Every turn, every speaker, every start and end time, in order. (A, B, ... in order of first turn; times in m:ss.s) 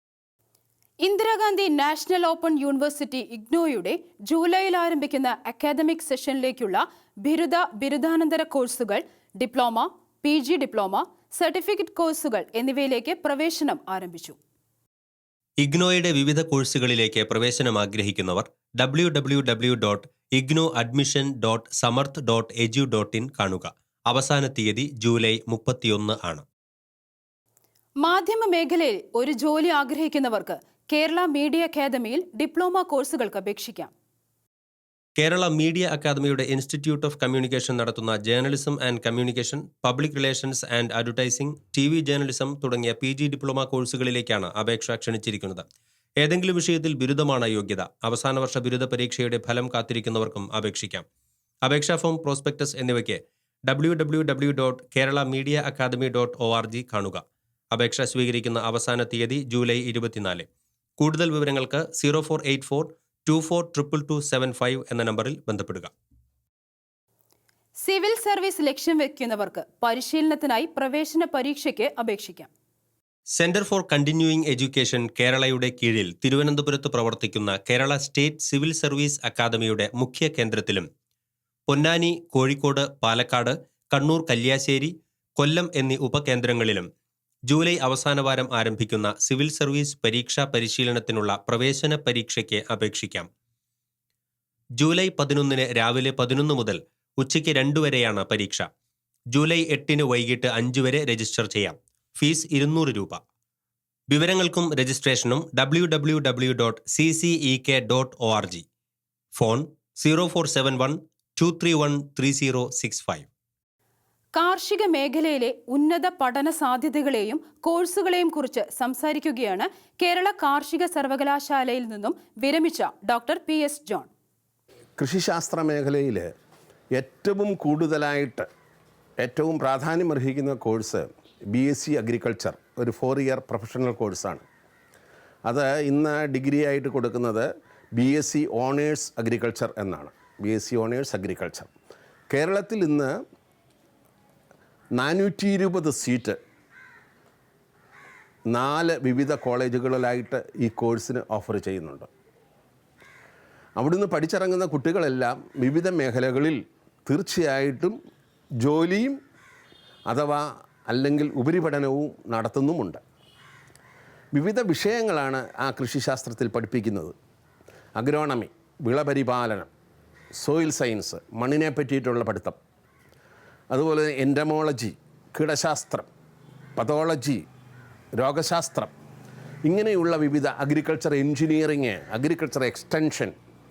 0:01.0-0:14.4 A
0:15.6-0:26.4 B
0:28.0-0:33.9 A
0:35.2-0:45.6 B
0:46.2-0:51.0 B
0:51.6-1:00.5 B
1:01.0-1:05.9 B
1:07.8-1:12.5 A
1:13.4-1:20.9 B
1:21.7-1:26.9 B
1:27.5-1:33.3 B
1:34.8-1:38.7 B
1:39.3-1:43.2 B
1:44.1-1:48.6 B
1:49.4-1:53.3 B
1:54.4-2:04.1 A
2:05.0-2:06.3 C
2:07.0-2:08.5 C
2:09.2-2:14.5 C
2:15.5-2:21.7 C
2:22.3-2:23.1 C
2:25.0-2:26.4 C
2:28.5-2:32.1 C
2:33.8-2:38.0 C
2:38.6-2:39.2 C
2:40.1-2:43.0 C
2:44.3-2:47.2 C
2:48.0-2:49.7 C
2:50.4-2:52.6 C
2:53.7-2:56.1 C
2:56.8-2:57.4 C
2:58.2-2:58.9 C
2:59.7-3:03.3 C